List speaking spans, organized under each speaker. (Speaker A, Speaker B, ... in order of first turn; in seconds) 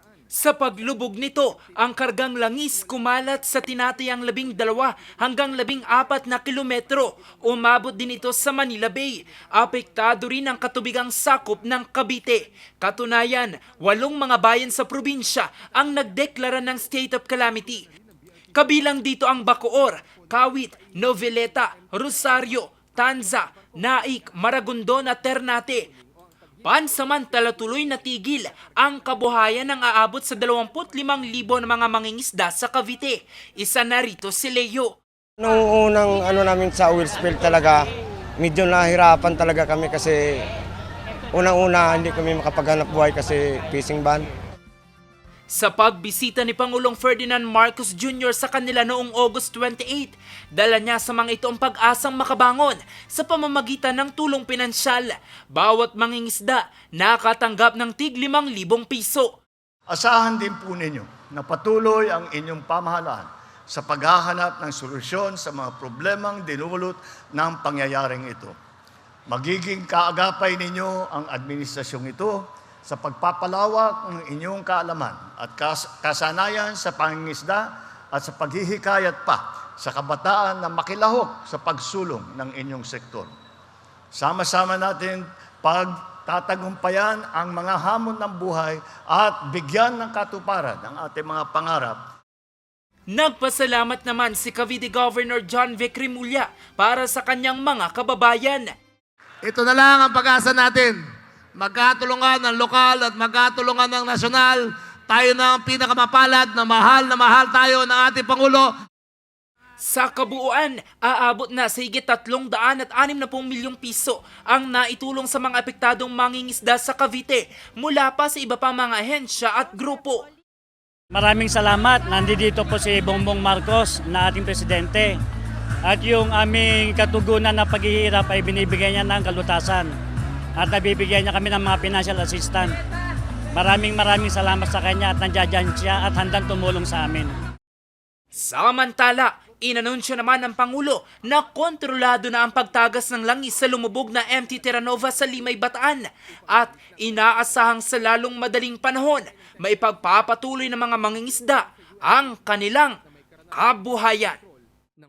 Speaker A: 0.3-17.9, 18.5-25.9, 26.6-34.9, 45.5-59.3, 93.1-98.7, 109.8-120.3, 138.3-153.0, 153.5-154.4
Speaker B: 35.4-37.9, 38.4-40.5, 41.3-44.3, 106.5-107.2
Speaker C: 59.9-68.5, 69.3-83.3, 84.2-92.0
Speaker D: 99.5-101.0, 101.5-108.7
Speaker E: 121.1-125.2, 125.9-129.9, 130.6-132.7, 133.5-137.3